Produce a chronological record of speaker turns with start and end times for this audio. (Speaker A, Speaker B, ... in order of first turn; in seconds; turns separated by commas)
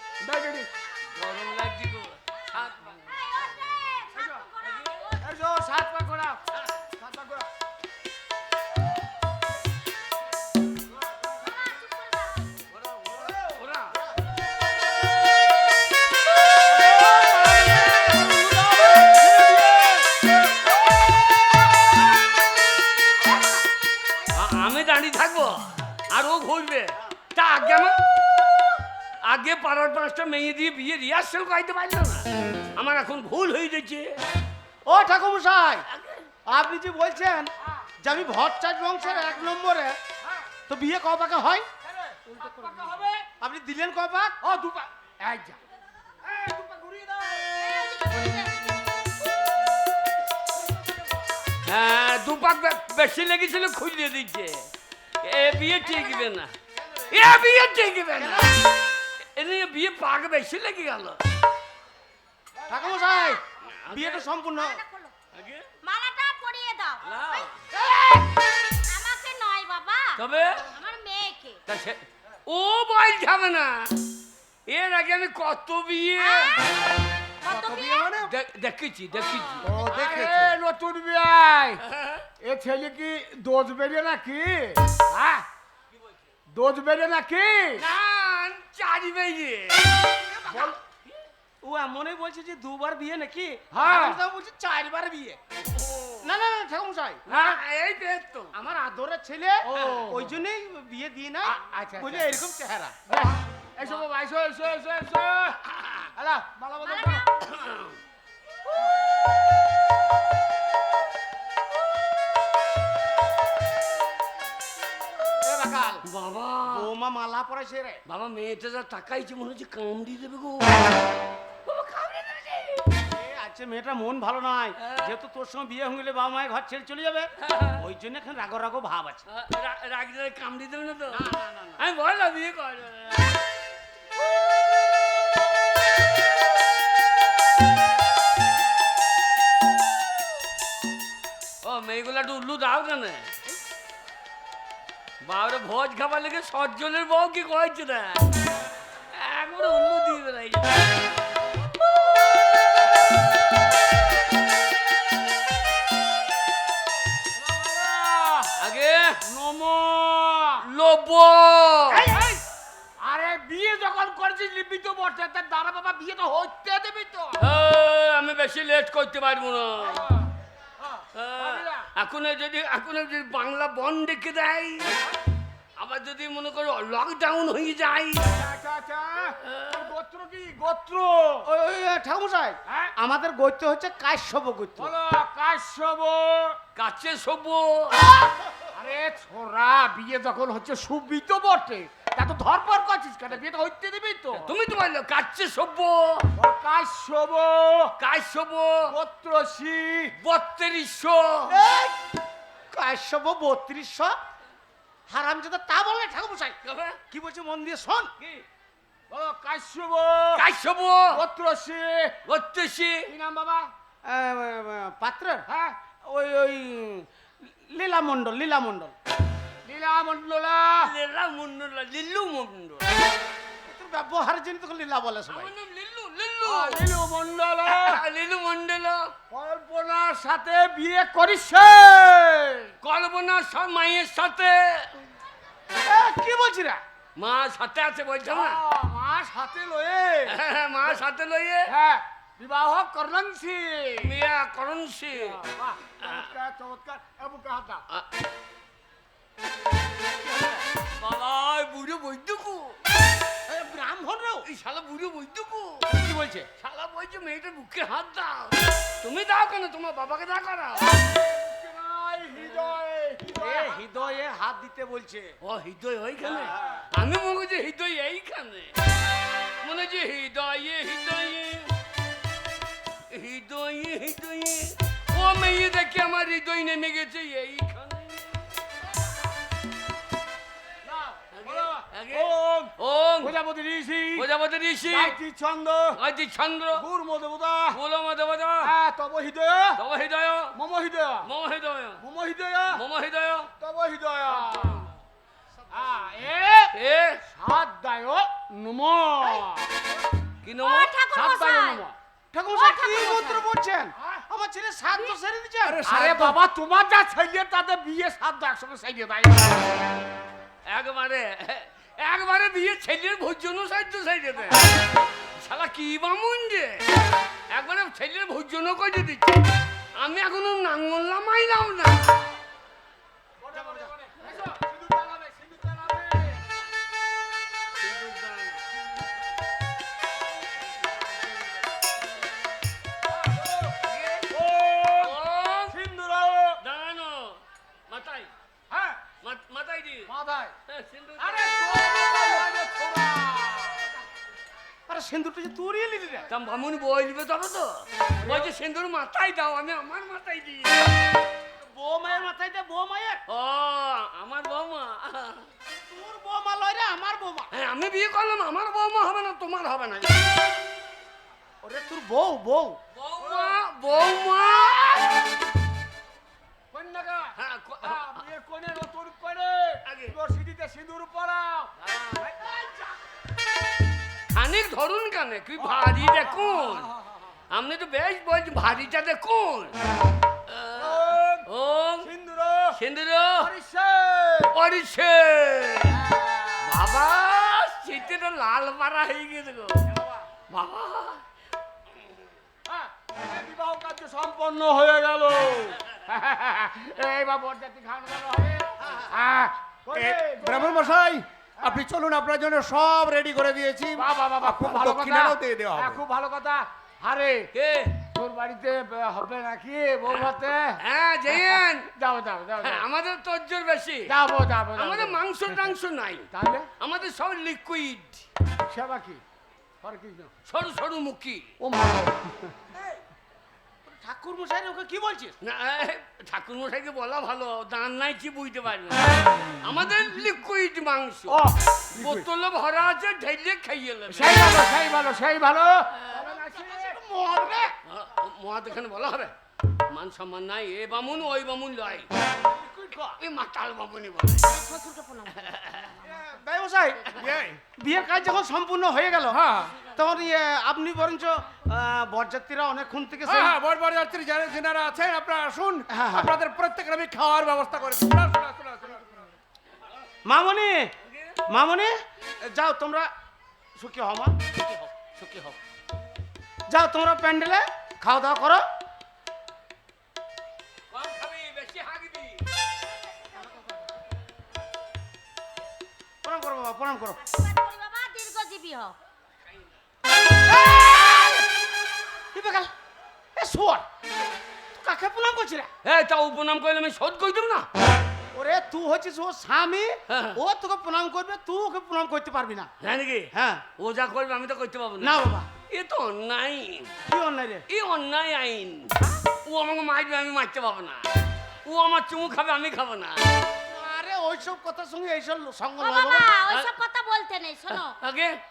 Speaker A: 0.2-0.7, Speaker B: 1.1-2.9, Speaker C: 2.9-5.2, Speaker A: 4.2-4.5, Speaker A: 5.2-6.4, Speaker A: 7.0-7.5, Speaker C: 11.4-12.5, Speaker B: 13.5-14.0, Speaker D: 17.0-19.2, Speaker A: 17.0-20.1, Speaker B: 24.3-28.0, Speaker B: 29.2-34.2, Speaker D: 34.8-35.9, Speaker B: 35.9-36.3, Speaker D: 36.5-40.0, Speaker A: 39.1-39.4, Speaker D: 40.7-41.6, Speaker A: 41.9-43.3, Speaker D: 43.4-44.4, Speaker A: 44.4-45.6, Speaker A: 46.2-47.8, Speaker C: 47.6-48.5, Speaker B: 51.6-54.6, Speaker B: 55.2-56.5, Speaker C: 55.9-56.3, Speaker B: 57.0-58.6, Speaker D: 58.2-58.5, Speaker B: 59.4-61.2, Speaker D: 62.7-64.8, Speaker C: 62.9-63.4, Speaker B: 63.7-64.3, Speaker C: 64.6-65.1, Speaker B: 65.3-65.7, Speaker C: 65.8-67.5, Speaker B: 67.0-67.5, Speaker C: 68.0-71.6, Speaker B: 70.2-70.7, Speaker B: 71.7-74.0, Speaker B: 74.7-76.7, Speaker C: 76.2-78.2, Speaker B: 78.2-79.7, Speaker A: 79.6-81.8, Speaker E: 79.7-80.5, Speaker B: 81.9-82.2, Speaker A: 82.4-85.4, Speaker A: 86.5-87.8, Speaker B: 87.8-90.1, Speaker D: 90.4-90.8, Speaker D: 91.6-95.4, Speaker A: 93.7-94.2, Speaker B: 95.7-96.3, Speaker D: 96.2-97.4, Speaker B: 97.3-98.5, Speaker D: 98.5-103.0, Speaker A: 99.6-100.3, Speaker B: 99.8-100.1, Speaker A: 101.5-102.3, Speaker A: 103.1-105.6, Speaker B: 105.8-106.0, Speaker A: 106.2-107.1, Speaker C: 106.8-107.5, Speaker B: 107.4-108.0, Speaker A: 115.4-116.0, Speaker B: 116.1-116.9, Speaker D: 116.7-118.0, Speaker B: 118.1-121.0, Speaker B: 121.7-123.0, Speaker D: 123.0-129.2, Speaker B: 124.8-125.1, Speaker B: 127.4-127.8, Speaker B: 129.3-133.4, Speaker D: 131.1-131.8, Speaker B: 141.6-143.3, Speaker B: 145.2-148.3, Speaker B: 149.1-151.0, Speaker A: 157.3-158.5, Speaker B: 158.6-159.2, Speaker A: 159.2-160.6, Speaker B: 160.6-162.1, Speaker A: 161.9-162.4, Speaker A: 163.0-167.4, Speaker B: 167.4-170.1, Speaker A: 169.8-170.3, Speaker A: 170.8-171.9, Speaker B: 171.1-174.9, Speaker B: 175.8-178.3, Speaker A: 178.3-181.5, Speaker B: 179.4-179.9, Speaker D: 181.4-184.9, Speaker A: 184.8-186.6, Speaker B: 186.8-188.3, Speaker A: 188.7-194.5, Speaker B: 194.4-196.3, Speaker A: 196.3-197.9, Speaker B: 198.0-198.8, Speaker A: 198.9-200.1, Speaker B: 200.2-201.6, Speaker D: 201.5-201.9, Speaker D: 202.7-204.1, Speaker D: 205.1-206.6, Speaker B: 206.6-207.0, Speaker D: 207.1-208.1, Speaker A: 209.1-210.4, Speaker B: 210.3-211.2, Speaker A: 211.1-212.2, Speaker B: 212.2-213.1, Speaker A: 213.1-213.7, Speaker D: 214.0-215.4, Speaker A: 215.5-215.8, Speaker D: 216.0-218.9, Speaker A: 219.7-220.9, Speaker B: 220.8-223.0, Speaker D: 223.6-225.5, Speaker B: 225.3-226.9, Speaker A: 226.4-228.0, Speaker B: 227.7-229.1, Speaker A: 229.3-232.7, Speaker B: 232.8-234.9, Speaker D: 235.7-236.8, Speaker B: 237.2-238.6, Speaker A: 238.3-240.4, Speaker B: 240.3-241.7, Speaker A: 241.7-244.2, Speaker B: 244.0-245.3, Speaker A: 245.1-247.8, Speaker B: 246.0-246.3, Speaker B: 251.0-252.8, Speaker D: 253.5-254.5, Speaker B: 254.5-255.8, Speaker D: 255.9-256.5, Speaker B: 256.6-261.1, Speaker A: 260.9-264.1, Speaker D: 263.2-265.3, Speaker B: 265.4-268.8, Speaker D: 266.3-266.5, Speaker B: 269.4-271.7, Speaker B: 273.1-278.5, Speaker A: 280.8-284.3, Speaker B: 281.3-283.3, Speaker B: 284.1-285.2, Speaker A: 284.9-286.0, Speaker B: 285.9-286.8, Speaker A: 286.7-287.8, Speaker B: 287.7-288.7, Speaker A: 288.6-289.8, Speaker B: 289.8-290.5, Speaker A: 290.5-291.3, Speaker B: 291.2-292.0, Speaker A: 292.0-292.8, Speaker B: 292.7-293.5, Speaker A: 293.6-294.9, Speaker B: 294.3-294.9, Speaker A: 295.7-296.7, Speaker B: 296.7-297.2, Speaker A: 297.3-299.9, Speaker B: 300.4-300.9, Speaker C: 300.6-301.8, Speaker A: 301.1-301.9, Speaker D: 302.3-306.4, Speaker C: 302.5-303.4, Speaker A: 305.6-309.8, Speaker B: 310.6-314.7, Speaker B: 315.4-316.9, Speaker B: 317.5-322.2, Speaker A: 323.4-326.4, Speaker D: 323.5-323.9, Speaker B: 327.8-328.6, Speaker A: 333.2-333.7, Speaker B: 333.8-334.3, Speaker A: 334.3-335.1, Speaker B: 335.0-335.8, Speaker A: 335.7-336.6, Speaker B: 336.6-338.3, Speaker A: 338.7-339.0, Speaker B: 339.2-340.1, Speaker A: 340.1-340.5, Speaker B: 340.7-342.1, Speaker A: 341.2-343.9, Speaker D: 344.9-346.3, Speaker B: 346.3-350.9, Speaker D: 351.6-353.2, Speaker B: 353.3-355.5, Speaker D: 355.9-357.5, Speaker B: 357.5-360.3, Speaker D: 361.6-362.8, Speaker B: 362.9-365.3, Speaker A: 363.2-363.5, Speaker A: 366.7-372.4, Speaker B: 367.4-368.2, Speaker B: 369.8-370.1, Speaker B: 374.3-376.9, Speaker A: 375.6-377.1, Speaker B: 377.5-379.8, Speaker B: 380.5-382.1, Speaker A: 380.8-381.4, Speaker A: 382.0-382.8, Speaker B: 382.7-383.5, Speaker A: 383.4-384.5, Speaker B: 384.5-386.0, Speaker A: 385.9-386.7, Speaker B: 386.6-389.9, Speaker B: 390.5-391.2, Speaker A: 392.7-400.9, Speaker D: 398.8-399.1, Speaker E: 399.9-406.0, Speaker A: 403.9-407.5, Speaker B: 407.5-408.0, Speaker A: 408.1-412.8, Speaker B: 410.1-411.9, Speaker B: 412.6-414.1, Speaker A: 414.1-415.2, Speaker B: 414.8-416.3, Speaker A: 416.3-416.7, Speaker B: 416.8-418.2, Speaker A: 418.7-419.2, Speaker A: 419.8-420.3, Speaker B: 420.5-421.5, Speaker A: 421.6-422.5, Speaker D: 423.8-425.4, Speaker B: 425.4-431.4, Speaker A: 431.3-432.2, Speaker B: 431.9-434.6, Speaker A: 434.1-436.9, Speaker B: 436.0-436.2, Speaker D: 436.1-437.7, Speaker B: 437.9-439.3, Speaker B: 439.9-442.1, Speaker D: 442.4-443.1, Speaker B: 443.2-444.6, Speaker C: 444.5-445.5, Speaker B: 445.4-445.9, Speaker D: 446.0-453.6, Speaker E: 447.2-447.6, Speaker E: 449.3-449.8, Speaker E: 453.3-459.0, Speaker D: 455.9-456.3, Speaker D: 460.2-460.9, Speaker B: 461.1-461.4, Speaker D: 461.5-463.1, Speaker D: 463.8-465.6, Speaker D: 466.7-468.6, Speaker B: 470.9-472.4, Speaker D: 476.2-477.2, Speaker C: 477.2-479.0, Speaker D: 480.5-481.4, Speaker D: 482.3-482.7, Speaker D: 483.4-483.8, Speaker D: 484.7-485.7, Speaker B: 485.8-487.7, Speaker D: 488.3-492.7, Speaker B: 490.1-490.4, Speaker B: 492.8-496.9, Speaker D: 493.3-493.6, Speaker D: 495.0-495.5, Speaker D: 497.1-497.6, Speaker B: 497.7-501.1, Speaker B: 501.6-503.3, Speaker D: 503.7-506.3, Speaker C: 505.8-507.9, Speaker B: 507.7-508.4